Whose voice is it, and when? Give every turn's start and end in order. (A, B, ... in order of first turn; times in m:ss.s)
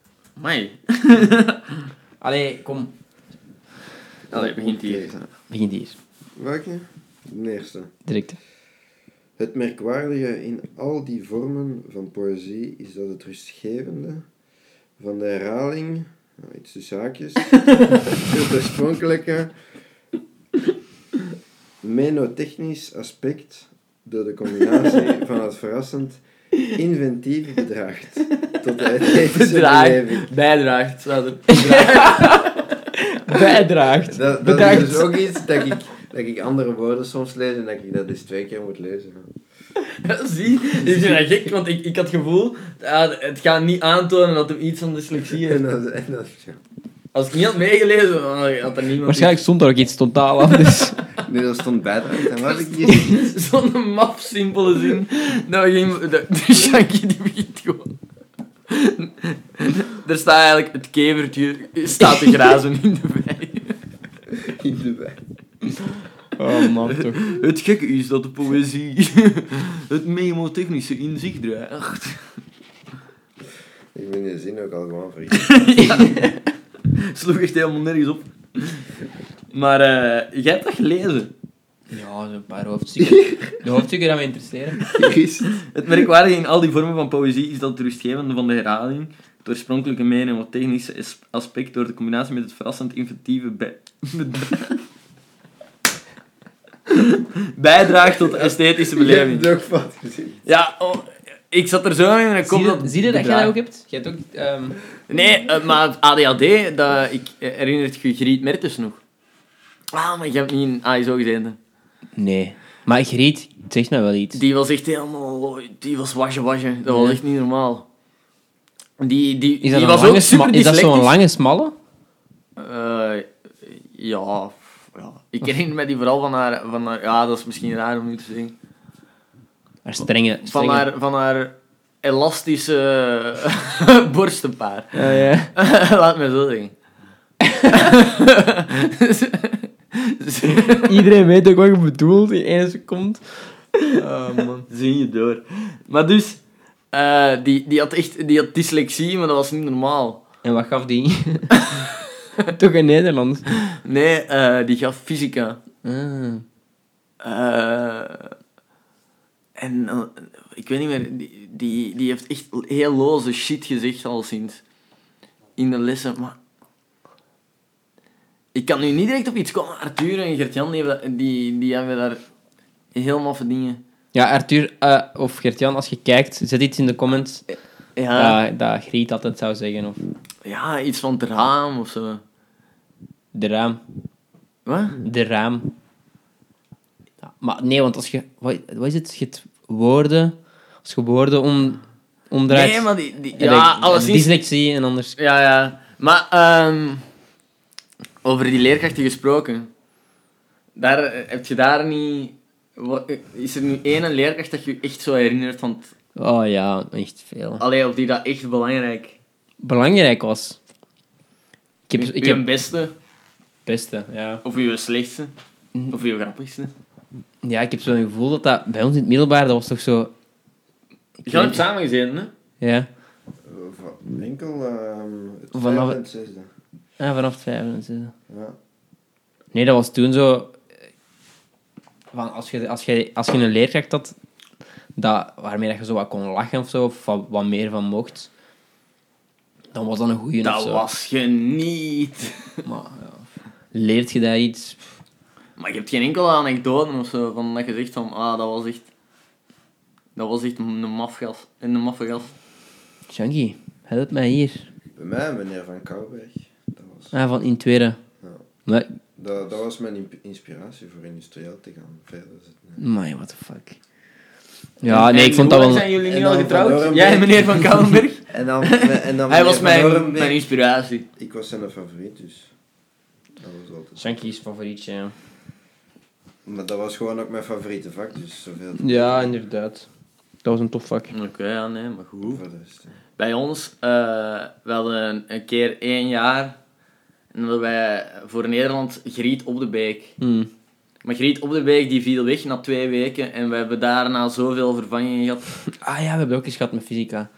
0:00.4-0:01.8 A
0:02.2-0:02.9 B
0:04.3-0:05.2 C
0:04.3-0:05.1 A
0:05.5-0:06.0 B
0:06.4-0:07.9 C
0:08.0-0:08.4 B
0:09.4-0:14.3 C
0:15.0-0:19.5 C
0:17.7-0:18.0 A
0:21.8-0:30.3 C
0:28.4-0:32.7 A
0:31.5-0:35.2 B
0:34.0-0:39.3 C
0:39.8-0:45.6 A
0:40.8-0:41.2 C
0:45.3-0:46.6 C
0:47.1-0:49.4 A
0:49.0-0:51.0 B
0:51.2-0:53.2 C
0:52.3-0:57.9 A
0:58.7-1:03.8 A
1:02.1-1:02.5 B
1:04.3-1:05.2 C
1:06.4-1:07.2 B
1:06.5-1:12.3 A
1:13.9-1:16.0 C
1:15.3-1:18.8 A
1:19.5-1:21.3 A
1:21.9-1:24.9 B
1:24.9-1:25.6 C
1:25.5-1:34.8 A
1:36.9-1:39.5 A
1:38.3-1:40.4 C
1:40.4-1:43.5 A
1:42.4-1:44.8 B
1:45.1-1:49.0 A
1:49.9-1:51.6 A
1:52.2-1:54.4 B
1:54.3-1:57.8 A
1:56.9-1:57.2 B
1:59.0-2:01.1 A
1:59.6-2:01.7 B
2:02.6-2:08.5 A
2:09.8-2:10.8 B
2:10.4-2:16.7 A
2:14.9-2:15.5 B
2:17.6-2:21.1 A
2:20.4-2:24.6 B
2:24.6-2:26.4 A
2:26.9-2:30.2 A
2:30.4-2:31.6 B
2:31.6-2:32.4 A
2:32.5-2:33.4 B
2:33.6-2:35.6 A
2:35.8-2:36.4 B
2:37.2-2:38.3 A
2:39.6-2:44.6 A
2:45.6-2:46.4 A
2:48.5-2:52.2 A
2:52.9-2:53.8 A
2:54.1-2:57.4 B
2:58.0-2:58.4 A
2:58.1-3:00.0 B
3:00.4-3:02.2 A
3:03.3-3:03.8 B
3:04.6-3:05.0 A
3:05.0-3:05.7 B
3:07.2-3:15.1 B
3:12.5-3:14.4 A
3:15.2-3:17.0 A
3:18.2-3:19.7 A
3:20.8-3:25.9 A
3:26.2-3:27.6 B
3:27.6-3:29.2 A
3:29.6-3:30.6 B
3:31.9-3:32.4 B
3:32.0-3:32.9 A
3:33.6-3:34.4 B
3:34.4-3:35.3 A
3:35.9-3:36.7 A
3:37.4-3:40.1 B
3:41.2-3:41.6 B
3:41.3-3:42.3 A
3:42.6-3:42.9 B
3:43.4-3:46.5 C
3:45.5-3:46.0 B
3:47.0-3:48.1 B
3:48.3-3:48.6 C
3:49.5-3:50.6 B
3:52.1-3:54.1 B
3:55.0-3:58.3 B
3:59.7-4:00.8 B
4:00.4-4:02.5 A
4:02.6-4:04.8 B
4:05.6-4:08.9 A
4:10.2-4:12.3 A
4:13.1-4:14.7 B
4:15.0-4:17.2 C
4:17.1-4:18.0 B
4:18.6-4:19.0 B
4:19.2-4:22.8 C
4:22.8-4:23.8 B
4:24.8-4:25.9 B
4:24.9-4:31.0 A
4:26.0-4:27.6 C
4:28.3-4:30.4 C
4:31.2-4:32.5 C
4:33.4-4:34.2 C
4:34.0-4:35.1 B
4:36.4-4:39.3 C
4:38.8-4:39.9 B
4:40.4-4:41.1 B
4:41.1-4:42.4 A
4:42.2-4:43.0 C
4:43.2-4:46.6 A
4:47.3-4:50.1 A
4:50.2-4:50.5 B
4:51.0-4:55.5 A
4:55.7-4:57.3 B